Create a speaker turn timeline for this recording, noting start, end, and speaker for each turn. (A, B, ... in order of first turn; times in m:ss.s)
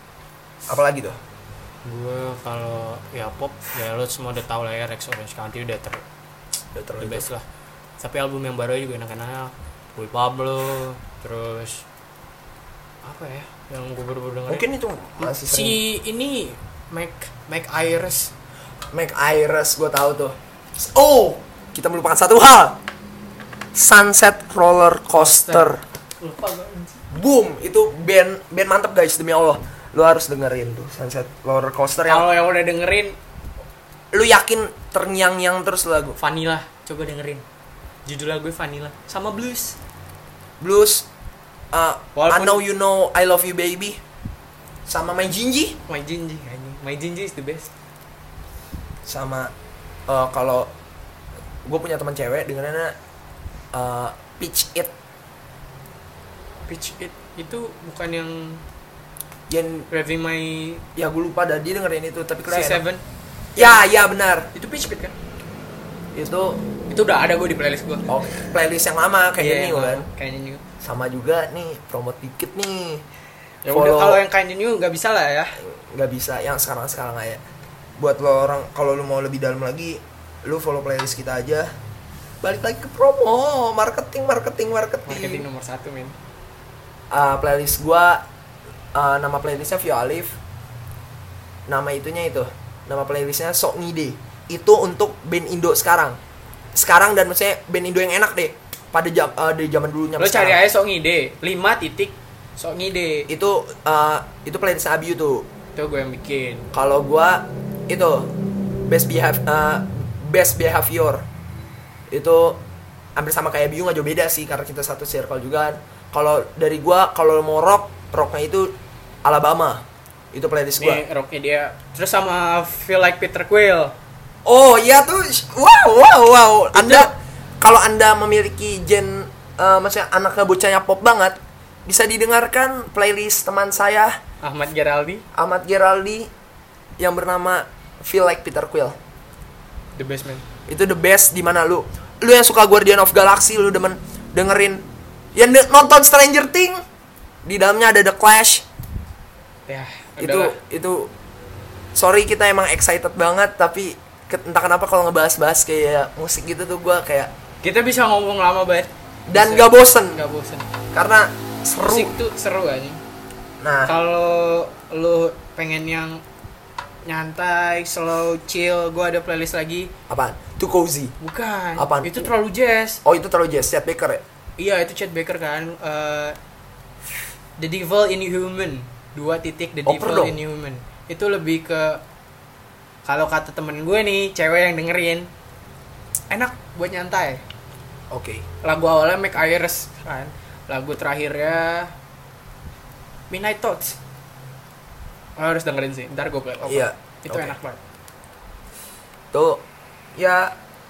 0:00.7-0:01.2 A
0:01.8-0:06.0 B
0:06.7-0:07.2 A
0:07.0-0:07.4 B
0:08.0-0:11.8 B
0:13.0-0:14.6 B
0:14.5-0:15.8 A
0:15.2-0:18.3 B
0:18.9-0:22.8 A
0:23.7-0:25.8 A
0:25.1-0:27.0 B
0:27.1-0:32.3 A
0:32.0-0:33.2 B
0:34.1-0:36.2 A
0:36.2-0:37.4 B
0:38.0-0:39.8 B
0:40.6-0:41.0 A
0:41.7-0:44.0 A
0:42.1-0:42.6 B
0:44.8-0:45.8 A
0:45.9-0:47.7 B
0:49.0-0:49.5 A
0:50.1-0:50.7 A
0:51.6-0:52.9 A
0:53.7-0:54.9 A
0:56.7-0:58.6 B
0:59.5-0:59.9 A
0:59.9-1:00.8 B
1:01.0-1:02.8 A
1:02.5-1:03.0 B
1:03.6-1:03.9 B
1:03.6-1:04.5 A
1:04.5-1:05.1 B
1:06.1-1:06.6 A
1:06.9-1:08.5 B
1:08.1-1:10.1 A
1:09.4-1:10.6 B
1:10.8-1:13.0 A
1:13.6-1:15.6 B
1:13.7-1:14.2 A
1:15.6-1:17.4 A
1:18.0-1:21.7 A
1:22.4-1:25.4 A
1:25.0-1:26.1 B
1:27.1-1:28.2 A
1:28.9-1:30.4 A
1:31.7-1:36.2 A
1:36.7-1:40.6 A
1:40.2-1:43.3 B
1:43.3-1:45.5 A
1:45.7-1:46.7 B
1:46.7-1:48.3 A
1:48.9-1:51.2 A
1:52.1-1:52.6 A
1:53.2-2:01.0 A
2:00.8-2:03.9 B
2:04.4-2:14.2 A
2:06.7-2:07.1 B
2:14.4-2:15.2 B
2:15.3-2:16.3 A
2:17.0-2:19.0 A
2:20.0-2:20.4 B
2:20.7-2:26.8 A
2:27.4-2:28.6 A
2:29.7-2:30.6 B
2:30.2-2:31.1 A
2:31.9-2:37.3 A
2:37.6-2:40.7 B
2:39.3-2:40.2 A
2:40.9-2:42.1 A
2:41.8-2:43.0 B
2:43.6-2:43.9 A
2:43.8-2:46.2 B
2:47.0-2:49.9 B
2:50.1-2:51.1 A
2:51.2-2:53.0 B
2:51.8-2:52.3 A
2:53.0-2:54.2 A
2:54.6-2:56.4 B
2:57.6-3:02.0 B
2:59.8-3:00.4 A
3:03.0-3:05.3 B
3:06.3-3:07.4 B
3:08.1-3:08.4 A
3:08.6-3:11.9 B
3:13.3-3:14.0 B
3:15.4-3:17.8 B
3:16.6-3:17.5 A
3:19.3-3:19.6 A
3:20.2-3:20.5 A